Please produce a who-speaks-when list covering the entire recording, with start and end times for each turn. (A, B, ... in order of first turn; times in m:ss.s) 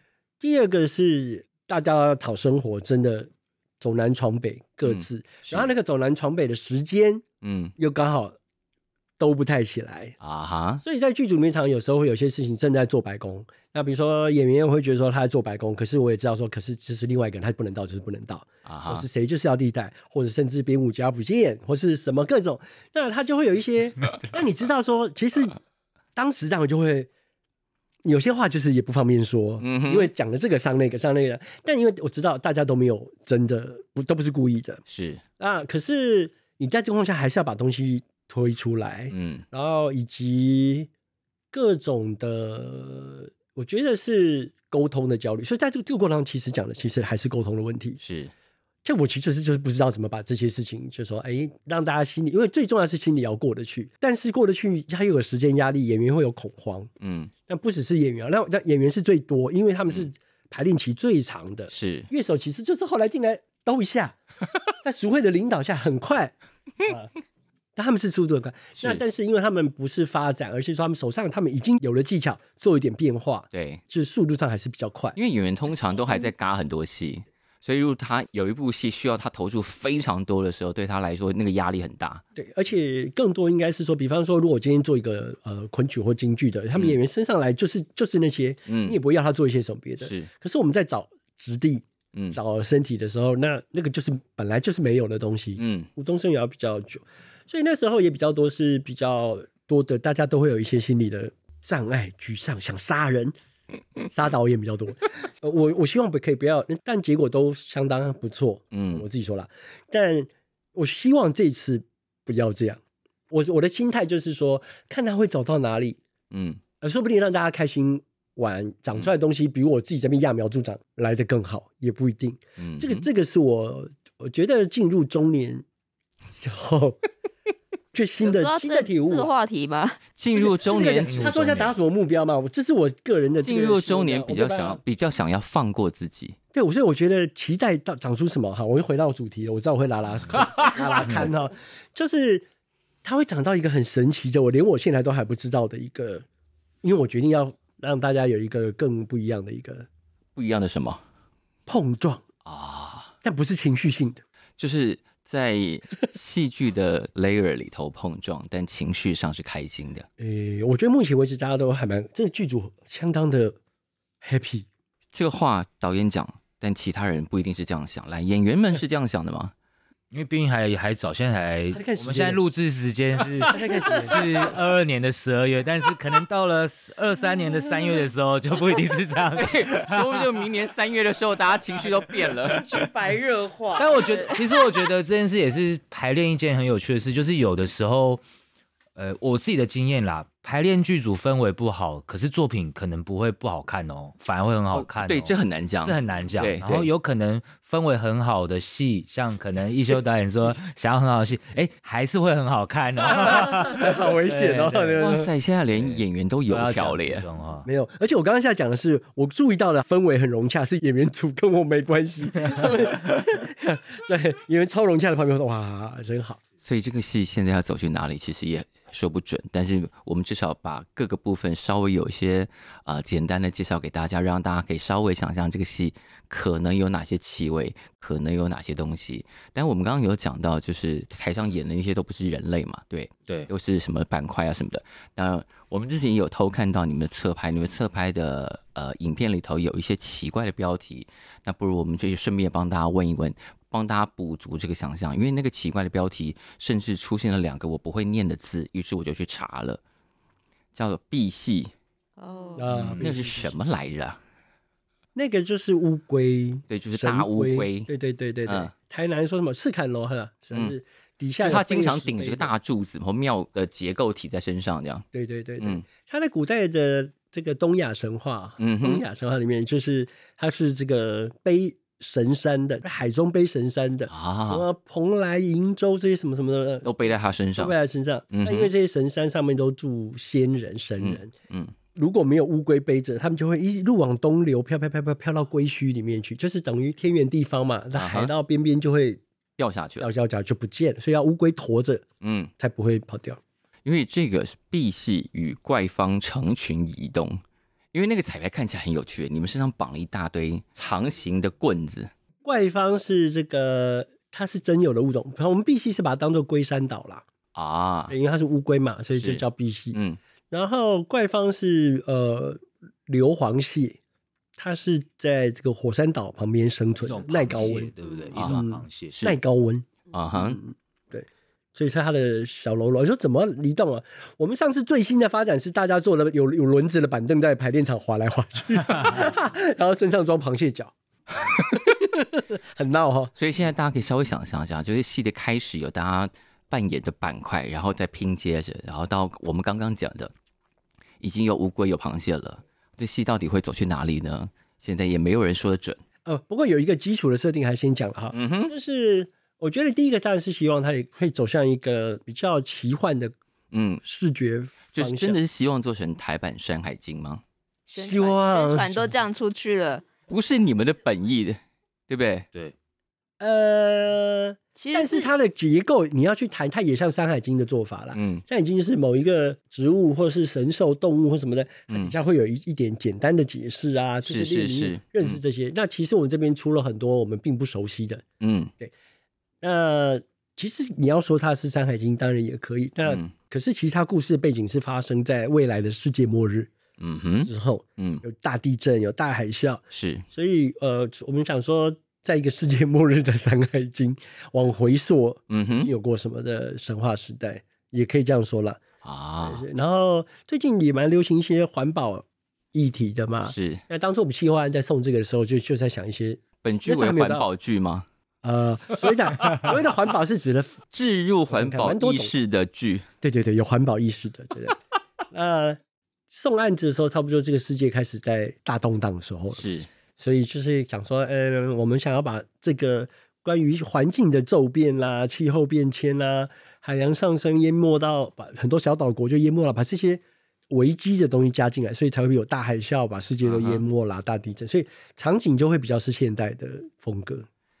0:00.4-0:07.2 A
0:04.8-0:05.7 B
0:07.4-0:07.7 B
0:07.8-0:08.4 A
0:09.2-0:10.2 A
0:10.2-0:10.8 B
0:10.8-0:25.6 A
0:18.6-0:19.0 B
0:26.2-0:27.1 A
0:28.0-0:34.8 A
0:29.6-0:30.1 B
0:34.9-0:35.2 B
0:35.4-0:40.9 A
0:39.1-0:39.4 B
0:41.5-0:48.0 A
0:48.0-0:48.3 B
0:48.8-0:56.9 A
0:57.0-0:57.3 B
0:57.5-1:04.2 A
1:01.7-1:02.1 B
1:04.8-1:07.1 A
1:07.8-1:15.2 A
1:13.5-1:13.8 B
1:15.2-1:22.2 B
1:22.4-1:43.3 A
1:28.7-1:29.0 B
1:30.0-1:30.3 B
1:32.1-1:32.4 B
1:35.6-1:35.9 B
1:44.1-1:56.0 A
1:48.7-1:49.0 B
1:56.3-1:56.6 B
1:56.8-2:05.6 A
2:02.6-2:03.1 B
2:06.3-2:07.0 A
2:07.9-2:09.3 A
2:08.2-2:10.0 C
2:10.2-2:11.5 B
2:10.3-2:14.8 A
2:11.0-2:11.7 D
2:13.4-2:16.4 B
2:16.5-2:22.4 A
2:21.0-2:21.3 D
2:23.0-2:26.2 A
2:26.8-2:29.9 A
2:30.4-2:31.0 B
2:31.7-2:32.2 A
2:32.4-2:33.1 B
2:33.2-2:34.2 A
2:34.6-2:40.1 B
2:40.2-2:43.6 A
2:44.2-2:44.7 A
2:45.1-2:49.5 B
2:50.1-3:00.3 D
2:51.7-2:52.4 A
2:53.5-2:54.3 A
2:59.3-3:02.7 B
3:02.4-3:04.5 E
3:03.8-3:08.2 D
3:09.0-3:25.0 D
3:14.7-3:16.9 B
3:23.2-3:25.3 A
3:25.0-3:27.2 B
3:25.7-3:27.7 D
3:27.6-3:36.4 A
3:36.6-4:09.8 B
4:10.7-4:11.7 B
4:12.2-4:12.7 C
4:12.6-4:13.5 A
4:12.7-4:13.1 D
4:12.8-4:14.2 B
4:15.1-4:22.5 A
4:16.7-4:17.9 B
4:18.4-4:18.7 B
4:21.4-4:25.0 B
4:25.1-4:41.3 A
4:28.6-4:29.0 B
4:34.1-4:34.6 B
4:36.8-4:37.8 B
4:38.3-4:38.7 B
4:41.0-4:41.7 B
4:41.9-4:49.2 A
4:47.9-4:48.3 B
4:49.6-4:50.1 B
4:50.0-4:52.0 A
4:52.2-4:52.5 B
4:52.6-4:53.4 A
4:53.8-4:57.4 B
4:57.9-5:02.1 B
5:02.4-5:07.2 A
5:07.5-5:08.1 B
5:08.1-5:10.0 A
5:09.1-5:10.2 B
5:10.5-5:14.0 A
5:14.6-5:30.9 A
5:17.0-5:19.2 D
5:18.3-5:19.4 B
5:20.1-5:20.6 B
5:31.5-5:33.3 A
5:33.4-5:40.3 B
5:41.2-5:46.0 B
5:46.2-5:53.3 A
5:48.3-5:48.7 B
5:53.7-5:54.0 B
5:54.0-5:55.4 A
5:54.9-5:57.4 B
5:57.9-6:00.0 C
5:58.0-5:59.1 A
6:00.3-6:02.5 B
6:03.4-6:18.2 A
6:04.8-6:05.3 C
6:08.1-6:08.4 B
6:14.2-6:15.4 B
6:18.4-6:18.7 B
6:19.6-6:26.7 A
6:23.0-6:23.3 B
6:27.0-6:28.2 B
6:27.4-6:38.8 A
6:29.9-6:30.2 B
6:35.5-6:35.9 B
6:39.0-6:39.6 B
6:39.4-6:47.5 A
6:43.4-6:43.8 B
6:46.6-6:48.0 B
6:48.4-6:50.8 A
6:50.9-6:53.0 B
6:51.5-6:52.3 A
6:53.2-6:54.8 A
6:55.3-6:59.6 A
6:59.5-6:59.9 B
7:00.2-7:17.5 A
7:13.4-7:13.8 B